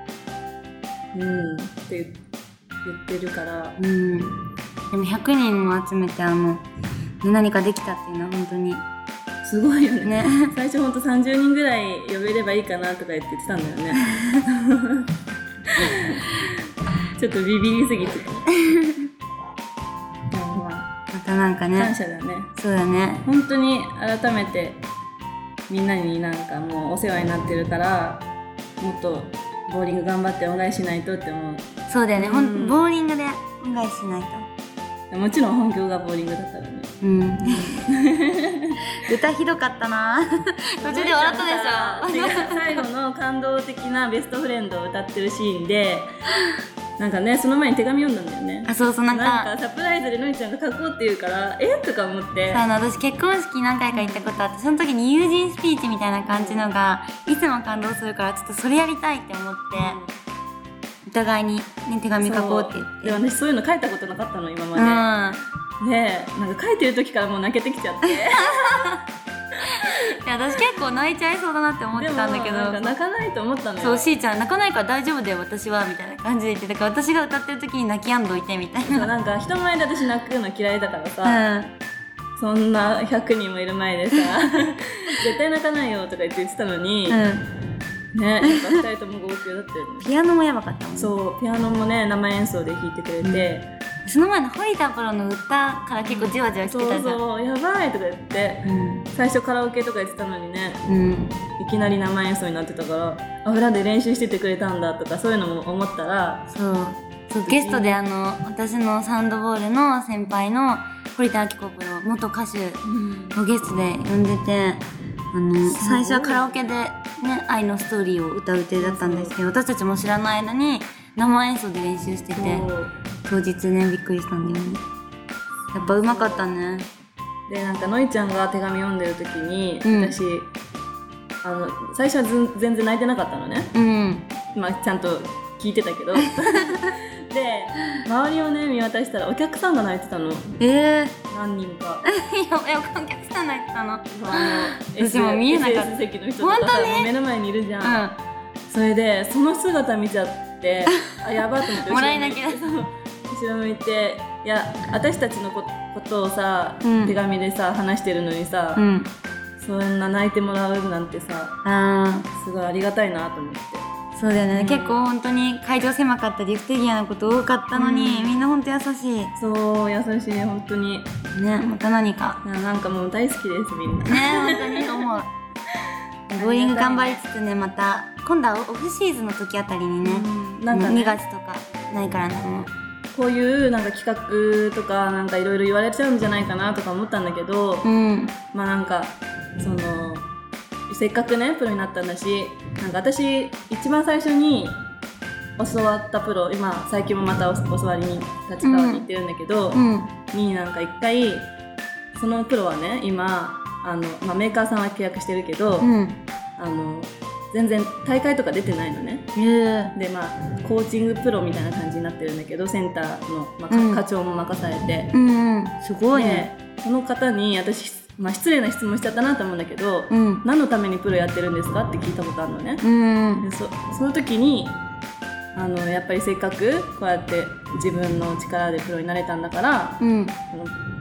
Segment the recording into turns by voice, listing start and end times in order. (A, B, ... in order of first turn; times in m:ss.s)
0:01.1-0:02.2 A
0:02.8-0:03.8 A
0:03.8-0:04.4 B
0:04.9-0:06.6 B
0:07.2-0:08.8 B
0:09.4-0:18.5 A
0:10.0-0:10.5 B
0:14.1-0:14.4 B
0:18.5-0:19.1 B
0:20.3-0:20.9 A
0:21.1-0:21.9 B
0:21.7-0:22.5 A
0:22.6-0:23.2 B
0:23.2-0:24.8 A
0:25.7-0:28.3 A
0:28.8-0:32.8 A
0:31.9-0:34.5 B
0:35.1-0:38.8 A
0:37.0-0:37.8 B
0:38.9-0:42.8 B
0:40.8-0:46.1 A
0:47.0-0:52.6 A
0:48.7-0:49.5 B
0:52.5-1:00.0 B
0:53.9-0:54.3 A
0:56.3-0:56.7 A
0:59.7-1:00.2 A
1:01.0-1:03.2 B
1:02.2-1:05.1 A
1:04.8-1:05.4 B
1:05.8-1:09.0 A
1:08.3-1:09.0 B
1:09.6-1:13.0 B
1:09.7-1:10.8 A
1:11.9-1:14.1 A
1:13.8-1:19.1 B
1:18.8-1:21.5 A
1:21.2-1:21.7 B
1:22.4-1:27.2 A
1:27.1-1:27.5 B
1:28.1-1:30.1 A
1:28.4-1:28.8 B
1:30.0-1:31.1 B
1:31.0-1:33.7 A
1:34.0-1:37.2 B
1:36.0-1:40.8 A
1:38.6-1:39.1 B
1:40.9-1:41.4 B
1:41.6-1:46.5 A
1:46.5-2:02.7 B
1:47.4-1:48.0 A
1:52.8-1:53.4 A
1:55.6-1:56.7 A
1:58.8-1:59.4 A
2:02.3-2:02.9 A
2:03.2-2:04.8 B
2:05.7-2:06.9 B
2:05.7-2:06.5 A
2:07.5-2:10.5 A
2:09.8-2:10.1 B
2:11.4-2:13.7 A
2:13.7-2:14.3 B
2:14.5-2:20.6 A
2:16.2-2:16.9 B
2:20.6-2:21.2 B
2:21.3-2:22.0 A
2:22.0-2:27.1 B
2:24.1-2:28.0 A
2:27.8-2:28.2 B
2:28.7-2:38.8 A
2:30.9-2:32.6 B
2:36.8-2:37.2 B
2:38.8-2:39.1 B
2:39.6-2:41.6 A
2:41.6-2:42.3 B
2:42.3-2:43.9 A
2:44.2-2:49.3 B
2:44.5-2:45.0 A
2:47.7-2:48.4 A
2:49.4-2:51.1 A
2:51.3-2:52.4 B
2:52.4-2:55.1 A
2:54.1-2:55.3 B
2:55.7-2:57.2 A
2:56.3-3:02.7 B
3:00.0-3:01.2 A
3:03.1-3:07.9 A
3:07.8-3:08.4 B
3:08.5-3:10.3 A
3:10.9-3:14.8 A
3:15.6-3:21.5 A
3:18.6-3:19.0 B
3:19.7-3:20.1 B
3:22.1-3:25.9 A
3:25.8-3:26.2 B
3:26.6-3:29.3 A
3:29.4-3:29.9 B
3:29.9-3:35.1 A
3:33.7-3:34.0 B
3:35.1-3:36.5 B
3:36.1-3:42.8 A
3:40.1-3:40.4 B
3:42.8-3:43.5 B
3:43.4-3:44.8 A
3:45.5-3:50.8 A
3:50.0-3:50.4 B